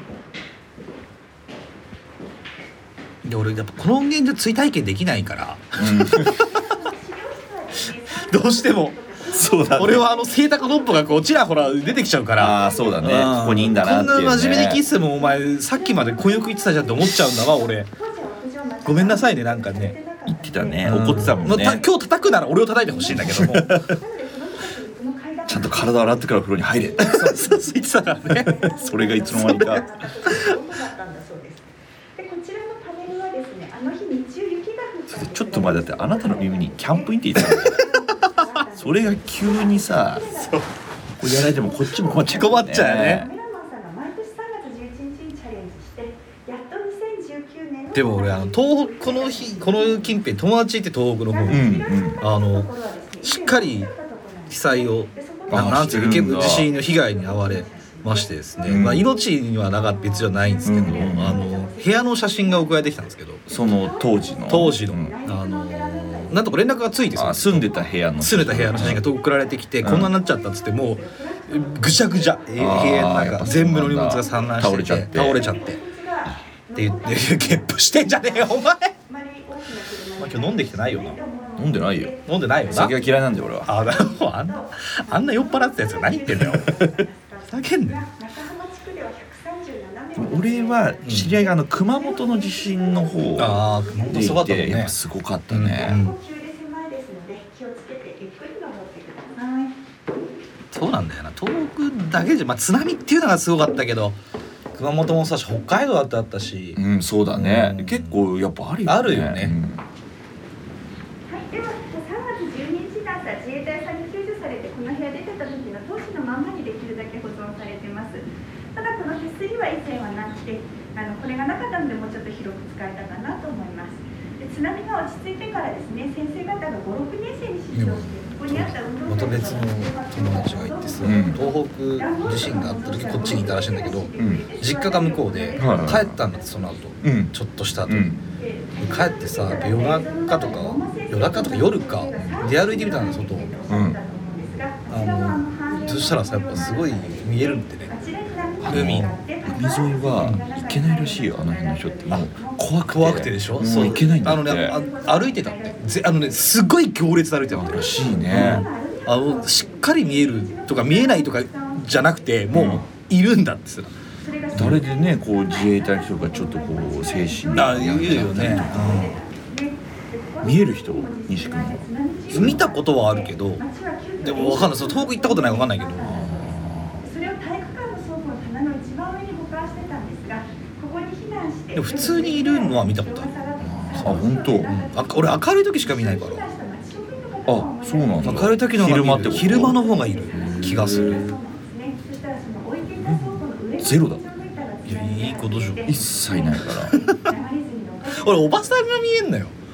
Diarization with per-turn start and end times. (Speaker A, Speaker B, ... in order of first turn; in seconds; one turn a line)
Speaker A: 3.2-6.5
Speaker B: 5.8-6.3
Speaker C: 6.5-40.5
Speaker A: 8.2-9.0
Speaker B: 9.3-10.0
Speaker A: 9.8-17.9
Speaker B: 12.4-14.8
Speaker A: 18.8-20.0
Speaker B: 20.3-21.8
Speaker A: 20.8-23.9
Speaker B: 25.5-27.6
Speaker A: 27.1-28.7
Speaker B: 28.6-29.9
Speaker A: 29.3-29.8
Speaker B: 35.1-37.8
Speaker A: 37.4-37.8
Speaker B: 38.8-40.4
Speaker A: 40.4-40.7
Speaker B: 41.2-43.3
Speaker C: 42.1-50.1
Speaker A: 42.3-43.3
Speaker A: 47.9-52.7
Speaker C: 51.3-66.7
Speaker B: 51.5-52.2
Speaker A: 53.2-53.9
Speaker A: 54.5-63.4
Speaker B: 55.5-56.6
Speaker B: 58.6-59.0
Speaker B: 60.6-61.4
Speaker B: 63.5-65.1
Speaker A: 64.5-75.8
Speaker B: 67.1-69.0
Speaker C: 68.7-78.5
Speaker B: 69.8-70.1
Speaker B: 72.6-75.4
Speaker A: 76.8-78.9
Speaker C: 79.0-82.9
Speaker A: 80.2-81.2
Speaker B: 81.6-82.1
Speaker A: 82.2-83.0
Speaker B: 82.7-83.7
Speaker A: 83.7-88.0
Speaker C: 83.7-94.4
Speaker B: 90.1-96.0
Speaker A: 91.0-91.3
Speaker A: 93.4-95.0
Speaker A: 95.5-96.1
Speaker C: 95.8-99.8
Speaker A: 100.7-104.2
Speaker A: 104.7-106.8
Speaker B: 106.8-109.8
Speaker A: 107.3-108.2
Speaker A: 108.8-109.6
Speaker C: 111.3-136.9
Speaker A: 127.7-138.1
Speaker B: 131.0-131.4
Speaker B: 134.2-134.4
Speaker B: 135.6-136.2
Speaker B: 137.0-137.3
Speaker B: 137.8-138.2
Speaker C: 138.3-152.6
Speaker A: 138.8-143.5
Speaker B: 142.1-142.5
Speaker B: 143.7-144.0
Speaker A: 144.9-147.9
Speaker B: 148.6-154.8
Speaker A: 148.7-149.1
Speaker A: 152.9-163.9
Speaker C: 153.6-156.5
Speaker C: 157.4-162.8
Speaker B: 157.5-158.6
Speaker B: 162.5-162.8
Speaker C: 164.2-188.6
Speaker B: 164.5-169.1
Speaker A: 167.5-169.2
Speaker B: 170.4-172.6
Speaker A: 172.3-173.6
Speaker A: 174.2-176.2
Speaker B: 176.0-177.0
Speaker A: 181.7-183.3
Speaker B: 183.6-184.7
Speaker A: 183.9-186.4
Speaker B: 187.5-189.8
Speaker A: 188.2-191.3
Speaker C: 189.1-198.8
Speaker B: 190.3-191.3
Speaker B: 193.0-194.2
Speaker A: 194.8-195.8
Speaker B: 195.8-196.9
Speaker A: 198.1-199.6